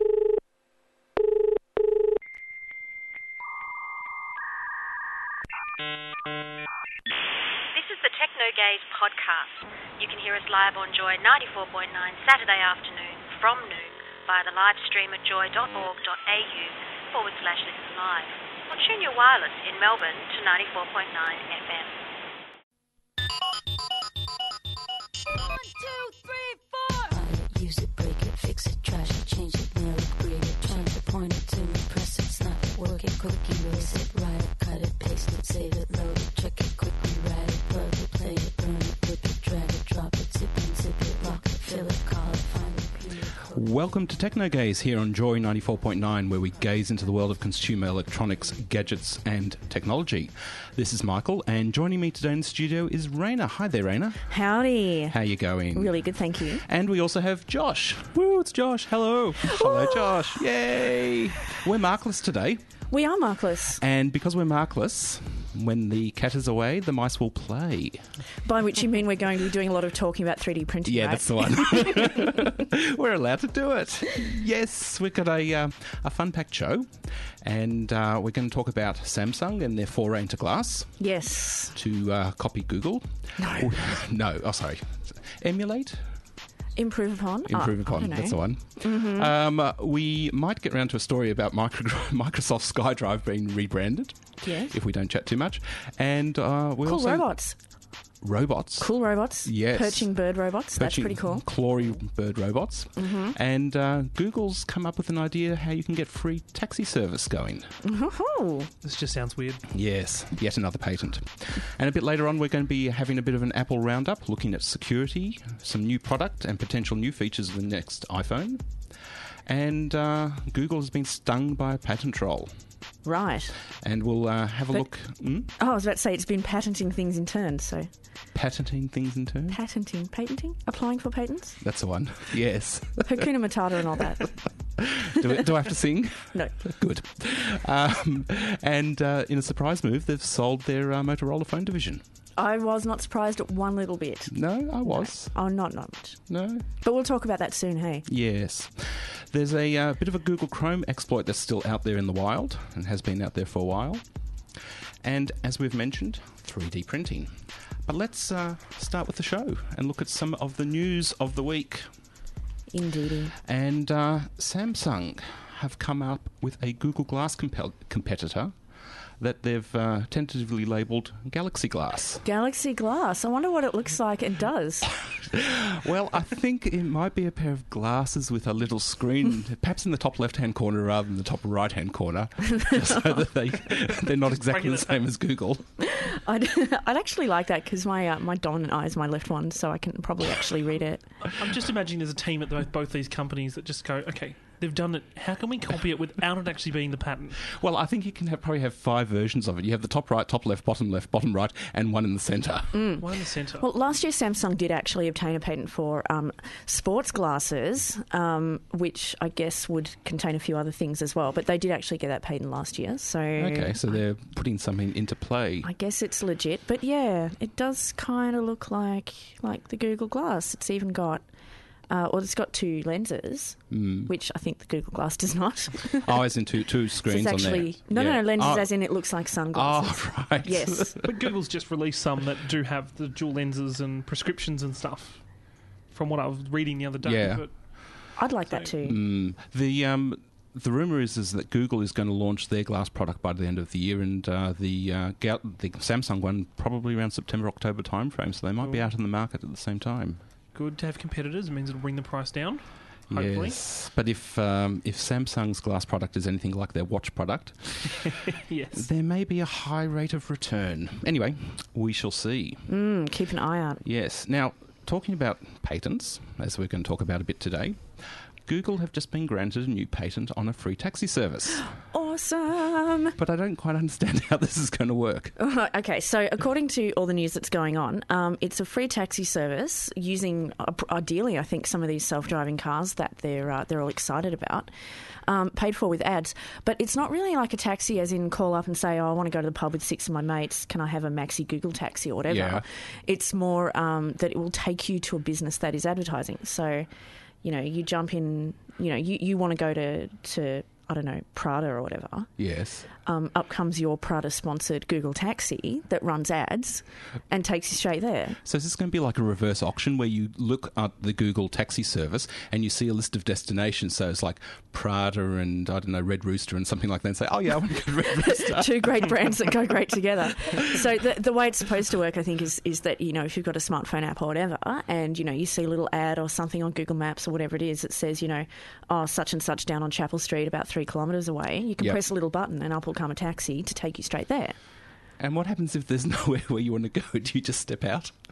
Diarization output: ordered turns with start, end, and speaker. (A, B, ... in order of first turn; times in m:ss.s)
0:07.7-0:21.9 A
0:25.8-0:43.7 B
0:43.5-0:54.2 C
0:54.3-0:55.2 D
0:55.1-0:56.0 C
0:55.7-0:56.6 D
0:56.6-0:58.2 C
0:58.2-0:59.4 E
0:59.4-1:02.6 C
0:59.4-1:00.2 D
1:02.9-1:03.8 D
1:03.8-1:08.0 C
1:08.4-1:12.3 D
1:10.8-1:20.9 C
1:21.0-1:21.8 D
1:21.7-1:26.0 C
1:23.4-1:23.7 D
1:26.8-1:29.3 D
1:27.5-1:37.3 C
1:34.4-1:34.7 D
1:36.8-1:37.5 D
1:38.2-1:40.2 C
1:38.8-1:41.4 D
1:40.7-1:47.7 C
1:43.0-1:43.4 D
1:47.8-1:48.7 D
1:48.8-1:49.7 E
1:49.7-1:58.7 C
1:59.4-2:02.5 C
2:03.0-2:03.6 D
2:03.8-2:05.5 C
2:05.6-2:07.9 D
2:08.3-2:09.6 C
2:09.5-2:11.6 D
2:11.6-2:13.2 C
2:13.0-2:14.3 D
2:14.8-2:22.0 C
2:22.4-2:26.2 D
2:24.3-2:25.3 C
2:26.3-2:26.6 C
2:26.8-2:28.0 D
2:28.1-2:34.0 C
2:35.0-2:41.9 C
2:42.7-2:43.3 D
2:43.4-2:48.6 C
2:49.2-2:52.2 C
2:52.2-2:54.9 D
2:55.2-3:05.7 C
3:04.4-3:05.0 E
3:05.8-3:11.0 D
3:11.2-3:17.4 E
3:17.5-3:22.8 C
3:22.7-3:23.0 D
3:23.0-3:23.6 E
3:23.6-3:34.0 D
3:33.4-3:35.7 C
3:35.6-3:41.2 D
3:41.9-3:46.2 D
3:43.7-3:44.1 C
3:46.0-3:48.7 C
3:47.0-3:51.0 D
3:49.5-3:51.2 C
3:51.0-3:55.2 E
3:55.9-3:57.5 E
3:57.0-3:57.4 C
3:58.2-3:59.0 D
3:58.8-4:10.2 C
4:08.6-4:08.9 E
4:10.5-4:13.6 E
4:13.1-4:18.2 C
4:18.3-4:18.9 E
4:18.8-4:22.7 C
4:22.7-4:23.8 D
4:23.8-4:31.7 C
4:31.9-4:33.2 D
4:33.2-4:35.4 C
4:35.4-4:44.7 D
4:45.2-4:56.9 D
4:52.3-4:52.6 C
4:57.4-5:02.3 D
5:02.4-5:02.9 C
5:03.0-5:08.4 D
5:08.4-5:19.1 C
5:18.2-5:34.6 D
5:35.2-5:38.1 C